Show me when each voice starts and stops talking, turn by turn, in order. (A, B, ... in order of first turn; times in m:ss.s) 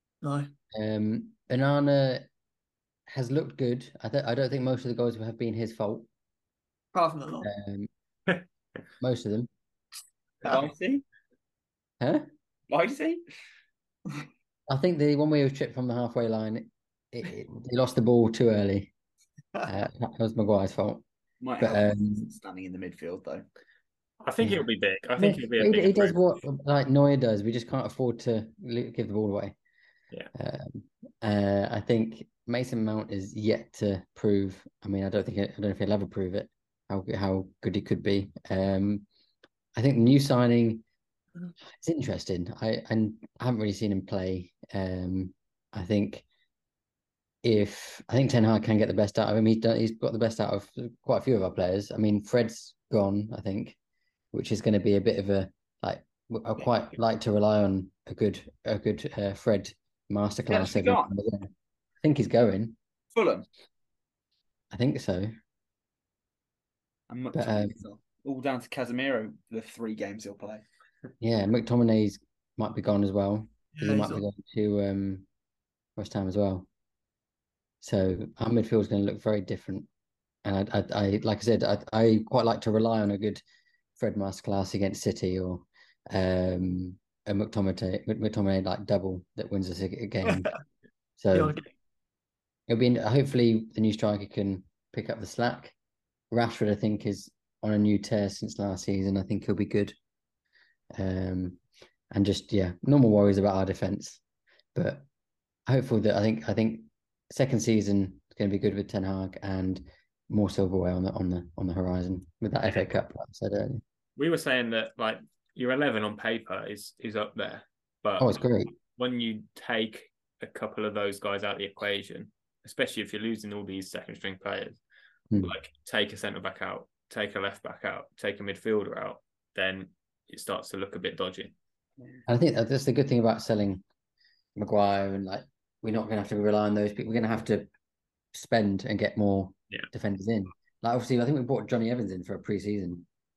0:00.2-0:00.5 A
0:00.7-0:02.2 B
0:03.1-0:06.1 B
0:06.9-0:07.5 A
0:07.4-0:07.9 B
0:09.0-0:09.5 B
0:10.4-0:11.0 C
0:12.7-0:13.2 C
0:14.7-0:18.9 B
0:19.7-0:21.0 B
0:21.4-0:23.4 C
0:21.6-0:22.3 B
0:24.2-0:26.2 D
0:25.2-0:29.6 B
0:30.4-0:39.1 B
0:39.8-0:40.8 B
0:41.7-0:46.3 B
0:47.4-0:53.8 B
0:54.3-1:01.5 B
1:00.5-1:01.1 C
1:02.0-1:02.8 B
1:03.1-1:03.5 C
1:04.7-1:05.3 B
1:07.1-1:10.6 C
1:07.3-1:07.8 B
1:11.2-1:15.3 B
1:13.8-1:14.2 A
1:16.0-1:16.7 B
1:17.8-1:19.9 B
1:20.4-1:23.4 B
1:24.0-1:30.5 B
1:30.2-1:30.6 A
1:31.2-1:31.6 B
1:31.3-1:31.7 A
1:32.7-1:35.8 B
1:36.3-1:39.9 B
1:40.9-1:41.6 B
1:42.1-1:44.2 B
1:44.8-1:45.0 B
1:45.7-1:53.8 B
1:54.2-2:04.8 D
1:58.2-1:58.7 B
2:05.4-2:11.5 D
2:12.3-2:13.8 B
2:14.6-2:17.7 B
2:18.3-2:23.1 B